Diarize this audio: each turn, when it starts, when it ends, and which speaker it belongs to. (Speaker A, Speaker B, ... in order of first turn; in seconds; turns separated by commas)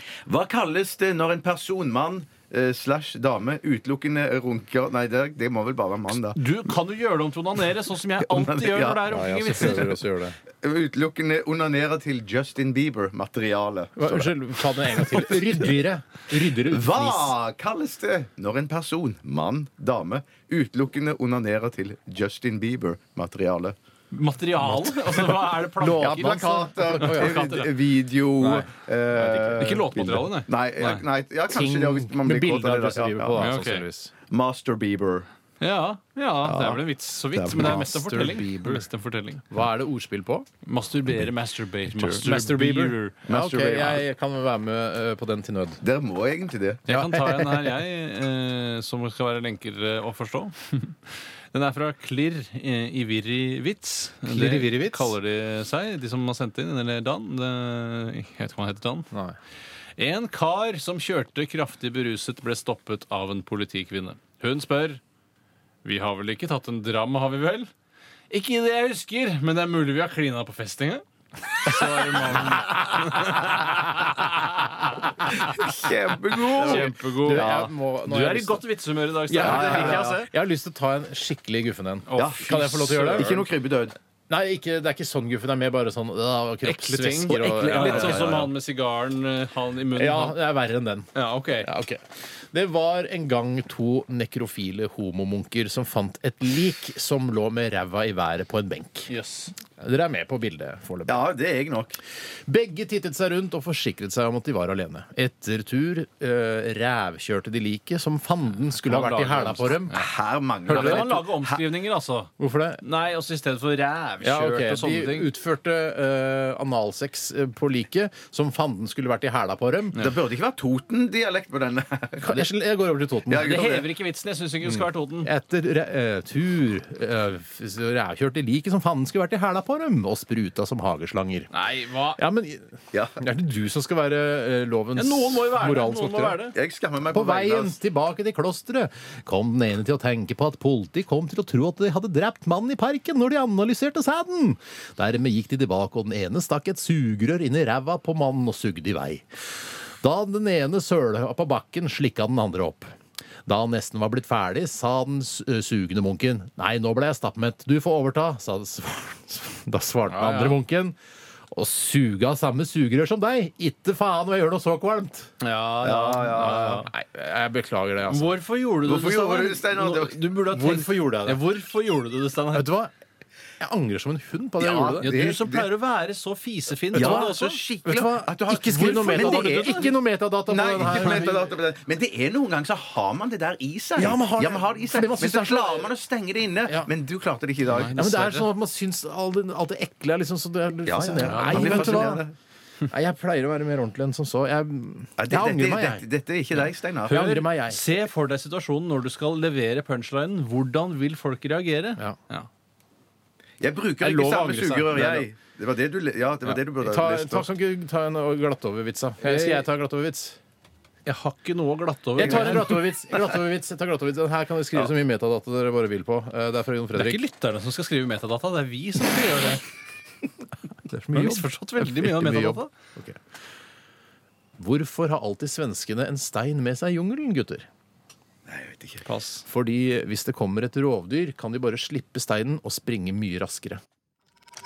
Speaker A: 0.3-6.4, Speaker B: 6.3-10.0, Speaker A: 8.2-9.0, Speaker C: 9.1-10.4, Speaker A: 10.6-15.7, Speaker C: 14.0-17.3, Speaker A: 16.6-23.8, Speaker B: 24.1-27.7, Speaker C: 24.6-25.0, Speaker C: 25.7-27.4, Speaker A: 26.0-33.5, Speaker C: 28.4-29.9, Speaker B: 29.6-31.0, Speaker C: 31.5-34.1, Speaker B: 33.4-33.8, Speaker A: 34.3-35.3, Speaker B: 35.6-39.5, Speaker A: 36.5-36.8, Speaker A: 37.4-37.8, Speaker C: 37.5-38.9, Speaker C: 39.5-40.5, Speaker B: 40.6-43.2, Speaker C: 42.0-45.8, Speaker A: 43.3-44.0, Speaker A: 45.8-46.8, Speaker B: 46.9-59.1, Speaker C: 46.9-47.8, Speaker C: 54.3-55.1, Speaker B: 60.0-65.0, Speaker B: 65.8-67.7, Speaker B: 68.3-74.9, Speaker A: 75.4-77.7, Speaker B: 76.3-80.3, Speaker C: 76.6-78.7, Speaker C: 79.3-83.5, Speaker A: 79.3-80.2, Speaker B: 82.1-83.4, Speaker A: 82.2-84.0, Speaker C: 84.3-88.5, Speaker B: 86.6-90.4, Speaker A: 87.3-88.5, Speaker C: 89.9-99.1, Speaker B: 91.2-91.7, Speaker B: 99.1-99.5, Speaker C: 99.8-101.3, Speaker A: 101.1-102.0, Speaker C: 102.5-110.0, Speaker B: 108.8-110.1, Speaker A: 109.9-111.6, Speaker B: 110.7-115.3, Speaker C: 110.7-111.2, Speaker C: 112.4-112.8, Speaker C: 114.2-120.0, Speaker A: 120.0-122.5, Speaker C: 122.2-123.7, Speaker A: 123.3-123.9, Speaker B: 123.4-125.3, Speaker C: 124.7-131.5, Speaker B: 131.5-132.2, Speaker C: 132.2-136.5, Speaker B: 134.9-136.6, Speaker A: 136.5-137.8, Speaker C: 137.1-152.9, Speaker C: 153.5-161.0, Speaker B: 160.1-160.6, Speaker C: 161.5-165.3, Speaker B: 165.4-166.9, Speaker A: 165.8-166.8, Speaker C: 166.3-168.4, Speaker B: 168.1-172.7, Speaker A: 168.8-170.2, Speaker C: 170.5-171.4, Speaker C: 172.5-172.9, Speaker C: 173.6-175.1, Speaker A: 174.6-175.7, Speaker B: 175.0-177.6, Speaker A: 176.9-180.0, Speaker C: 176.9-181.5, Speaker B: 178.7-179.9, Speaker A: 180.5-187.9, Speaker C: 184.0-185.9, Speaker B: 187.7-188.5, Speaker C: 187.9-192.2, Speaker A: 190.9-192.3, Speaker B: 191.2-192.2, Speaker C: 192.9-196.1, Speaker A: 195.2-197.2, Speaker C: 197.1-197.8, Speaker B: 197.1-202.5, Speaker A: 203.6-207.5, Speaker C: 204.0-205.3, Speaker C: 206.8-210.4, Speaker B: 209.2-209.7, Speaker B: 211.1-212.9, Speaker C: 212.2-217.2, Speaker A: 212.2-212.7, Speaker B: 216.9-219.6, Speaker C: 220.8-223.2, Speaker B: 221.1-222.7, Speaker C: 224.6-227.7, Speaker A: 228.5-229.0, Speaker B: 229.1-229.4, Speaker C: 229.5-233.8